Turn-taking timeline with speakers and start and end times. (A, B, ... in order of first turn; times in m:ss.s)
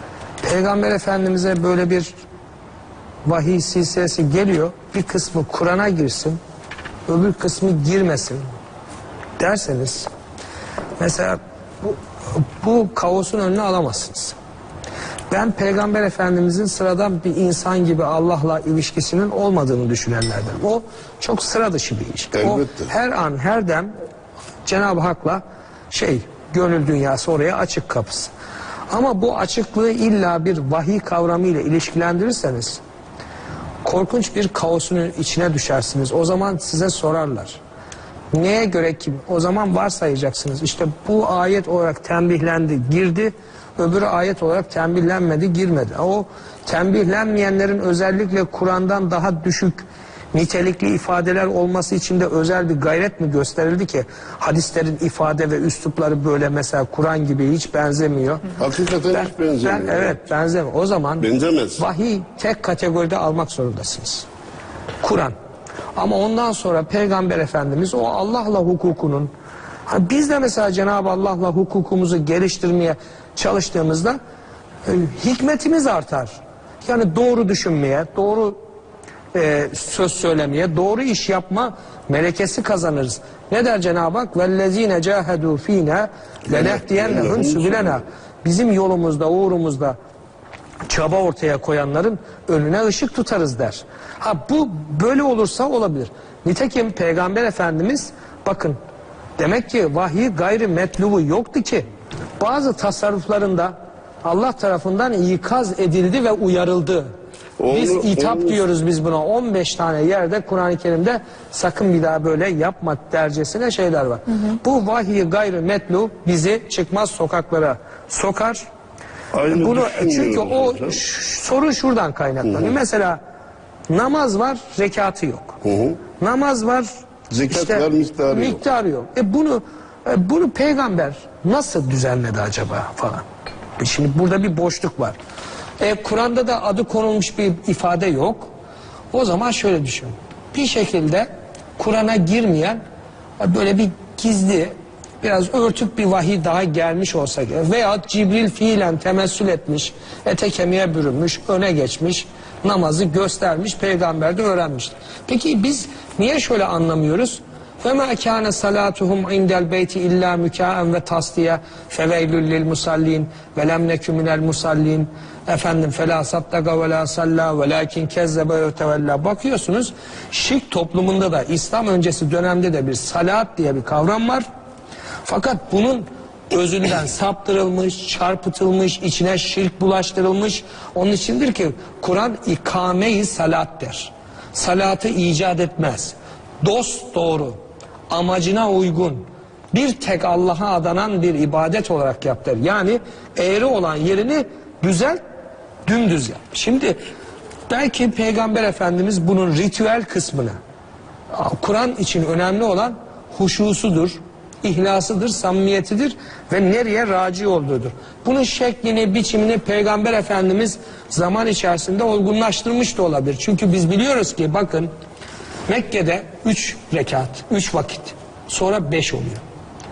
0:00.4-0:02.1 A
0:03.2-0:06.4 A
0:07.1-0:08.4 A
0:09.4-0:10.1 A
0:11.0-0:14.3 A
0:15.3-0:23.9 A
0:22.4-0:22.9 B
0:24.6-0:28.3 A
0:28.9-0:32.8 A
0:33.8-0:37.6 A
0:38.3-0:58.6 A
0:58.6-1:00.2 B
0:59.1-1:04.3 A
1:01.2-1:01.8 B
1:05.0-1:05.3 A
1:06.0-1:09.3 A
1:09.9-1:14.2 A
1:14.8-1:18.6 A
1:19.3-1:30.0 A
1:26.5-1:28.0 B
1:30.9-1:38.8 A
1:39.4-1:41.8 A
1:42.4-1:47.1 A
1:47.6-1:48.6 B
1:47.7-1:58.6 A
1:59.3-2:01.0 B
1:59.5-2:03.2 A
2:02.4-2:02.7 B
2:03.9-2:05.6 A
2:05.6-2:06.0 B
2:06.2-2:06.9 A
2:07.3-2:08.6 B
2:07.4-2:13.2 A
2:13.8-2:15.2 A
2:15.8-2:18.5 A
2:19.1-2:22.8 A
2:23.4-2:54.4 A
2:55.2-3:07.6 A
3:08.1-3:15.2 A
3:15.8-3:17.0 A
3:17.7-3:20.6 A
3:21.3-3:34.9 A
3:35.7-3:39.4 A